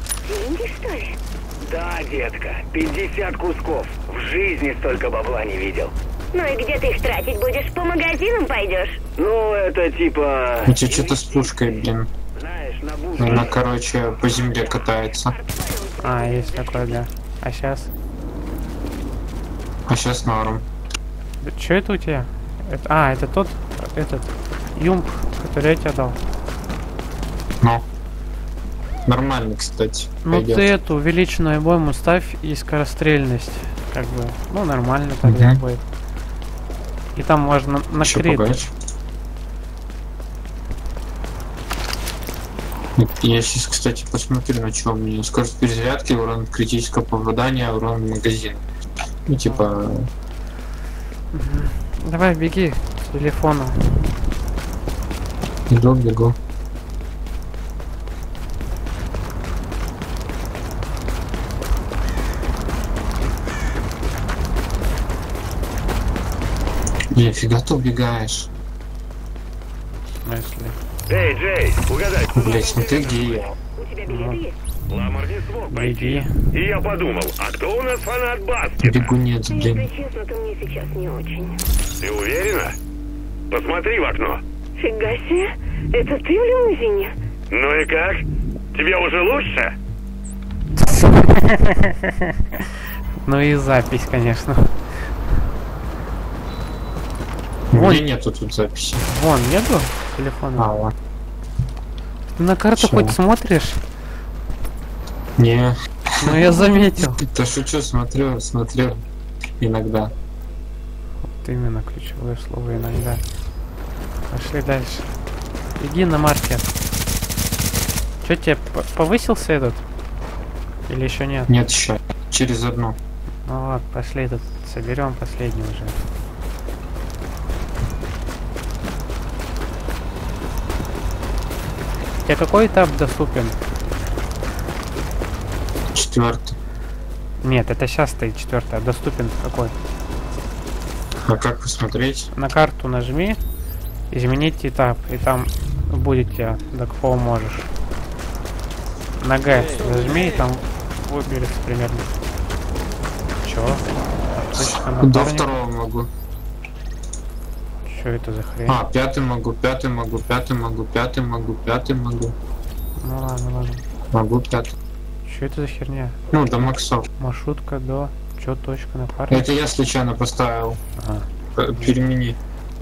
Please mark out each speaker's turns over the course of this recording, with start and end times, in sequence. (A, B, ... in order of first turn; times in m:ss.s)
0:00.2-0:01.2 A
0:01.7-0:05.9 B
0:06.3-0:09.0 A
0:09.2-0:11.5 B
0:10.6-0:12.1 C
0:12.4-0:13.5 B
0:13.2-0:15.3 C
0:15.2-0:17.0 A
0:16.0-0:17.9 D
0:19.9-0:20.6 C
0:21.4-0:26.2 D
0:29.1-0:30.7 C
0:30.2-0:35.8 D
0:35.2-0:35.6 C
0:37.2-0:38.6 D
0:38.0-0:38.7 C
0:43.0-0:48.6 C
0:49.3-0:50.1 C
0:51.3-0:54.3 D
0:55.7-0:56.4 C
1:07.1-1:08.5 C
1:10.2-1:10.8 D
1:11.1-1:13.5 B
1:12.3-1:13.5 C
1:13.8-1:14.6 A
1:14.1-1:14.4 D
1:14.9-1:19.0 B
1:15.7-1:16.5 D
1:18.8-1:19.9 C
1:19.5-1:21.6 A
1:22.0-1:22.8 B
1:23.5-1:24.4 B
1:24.8-1:27.1 A
1:27.5-1:29.8 B
1:30.8-1:35.4 D
1:37.7-1:39.1 C
1:37.7-1:38.0 D
1:39.1-1:40.8 D
1:40.6-1:40.9 C
1:42.4-1:43.9 D
1:42.8-1:43.2 C
1:45.4-1:46.5 C
1:46.2-1:47.2 D
1:47.2-1:49.0 C
1:49.6-1:50.1 C
1:51.2-1:53.2 D
1:54.3-1:55.1 D
1:55.8-1:56.7 D
1:58.2-1:59.8 D
2:00.9-2:01.5 D
2:01.5-2:03.0 C
2:03.5-2:06.0 D
2:12.2-2:13.6 D
2:15.9-2:16.6 C
2:17.4-2:19.8 D
2:21.2-2:22.3 C
2:22.3-2:23.4 D
2:24.1-2:27.7 D
2:29.2-2:32.2 D
2:33.4-2:35.6 D
2:34.5-2:36.1 C
2:37.9-2:38.8 D
2:38.7-2:42.4 C
2:43.0-2:43.8 D
2:44.1-2:44.8 C
2:45.2-2:49.5 D
2:46.3-2:47.1 C
2:49.3-2:50.8 C
2:51.0-2:52.0 D
2:51.6-2:52.4 C